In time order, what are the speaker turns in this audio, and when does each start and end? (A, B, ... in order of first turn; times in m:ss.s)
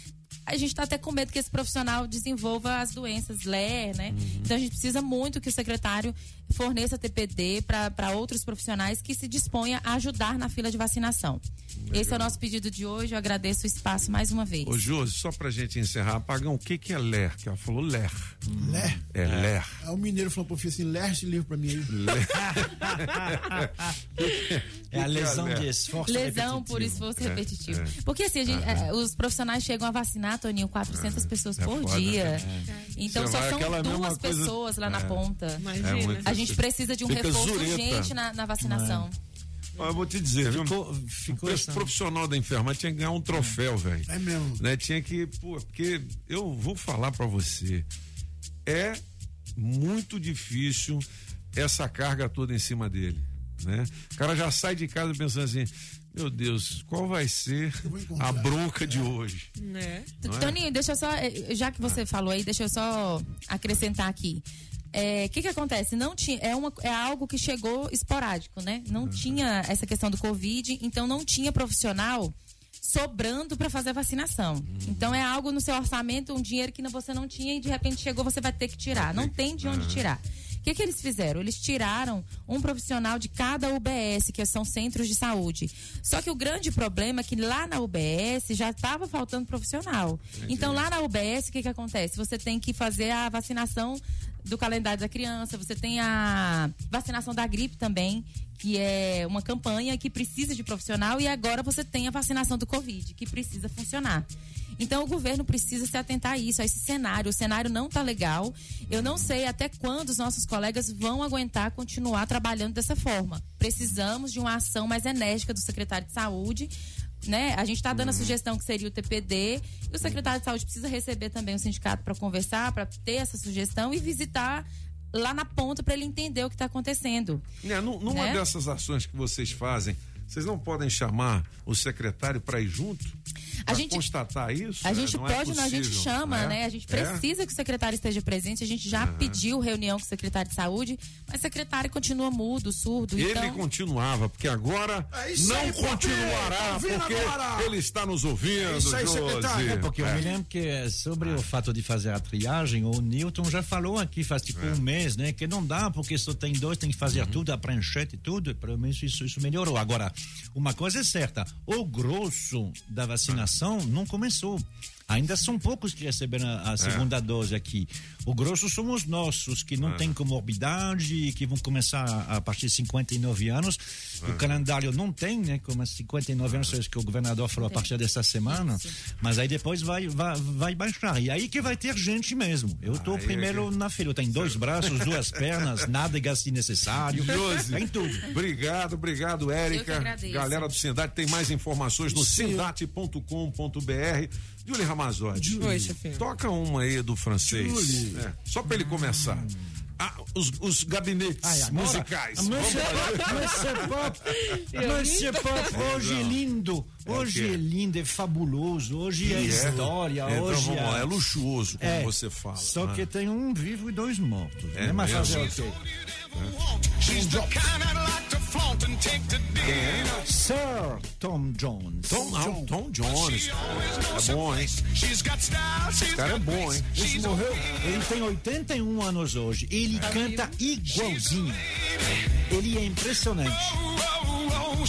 0:00.5-0:14.7 A
0:04.1-0:04.5 B
0:11.9-0:12.4 B
0:14.6-0:18.4 B
0:18.5-0:19.5 C
0:18.6-0:19.0 D
0:19.1-0:19.7 B
0:19.8-0:21.9 D
0:21.9-0:25.7 B
0:22.3-0:23.8 C
0:24.9-0:27.0 C
0:26.0-0:32.4 A
0:26.7-0:27.9 B
0:28.5-0:28.9 B
0:30.9-0:32.4 B
0:32.9-0:39.1 A
0:33.1-0:38.1 B
0:35.6-0:36.3 E
0:38.6-0:39.0 C
0:39.8-0:47.8 B
0:40.5-0:41.9 C
0:43.3-0:43.6 C
0:44.1-0:44.6 D
0:48.6-0:49.0 B
0:49.6-0:51.0 B
0:51.5-0:59.5 B
0:57.8-0:58.5 D
0:59.6-1:00.1 E
1:00.2-1:44.3 A
1:00.2-1:00.6 B
1:09.0-1:09.4 B
1:14.6-1:15.2 B
1:18.9-1:20.0 B
1:30.3-1:30.8 B
1:44.8-1:56.7 A
1:48.9-1:49.3 B
1:57.2-2:07.4 A
1:57.9-1:58.4 B
2:07.6-2:13.2 B
2:08.1-2:08.4 A
2:13.7-2:14.0 A
2:13.7-2:17.2 B
2:14.8-2:23.6 A
2:18.9-2:19.4 B
2:23.2-2:30.2 B
2:25.1-2:27.7 D
2:28.7-3:08.3 C
2:37.1-2:37.4 B
2:46.8-2:47.1 B
2:49.8-2:50.2 B
2:54.2-2:54.6 B
2:56.4-2:56.7 B
3:02.9-3:03.7 B
3:04.3-3:05.8 B
3:07.1-3:23.9 B
3:09.7-3:10.7 A
3:12.1-3:12.6 D
3:15.3-3:15.9 D
3:15.6-3:16.2 E
3:17.4-3:18.2 D
3:21.4-3:35.8 C
3:24.7-3:25.7 E
3:25.7-3:26.4 B
3:27.0-3:27.6 B
3:29.2-3:29.8 D
3:29.3-3:33.0 B
3:34.7-3:35.5 B
3:37.1-3:37.5 D
3:39.6-3:40.2 B
3:40.2-3:42.3 C
3:42.1-3:44.9 B
3:42.2-3:42.6 D
3:46.1-3:47.6 B
3:47.1-3:51.6 C
3:49.9-3:50.2 B
3:50.1-3:50.4 E
3:52.5-3:53.8 C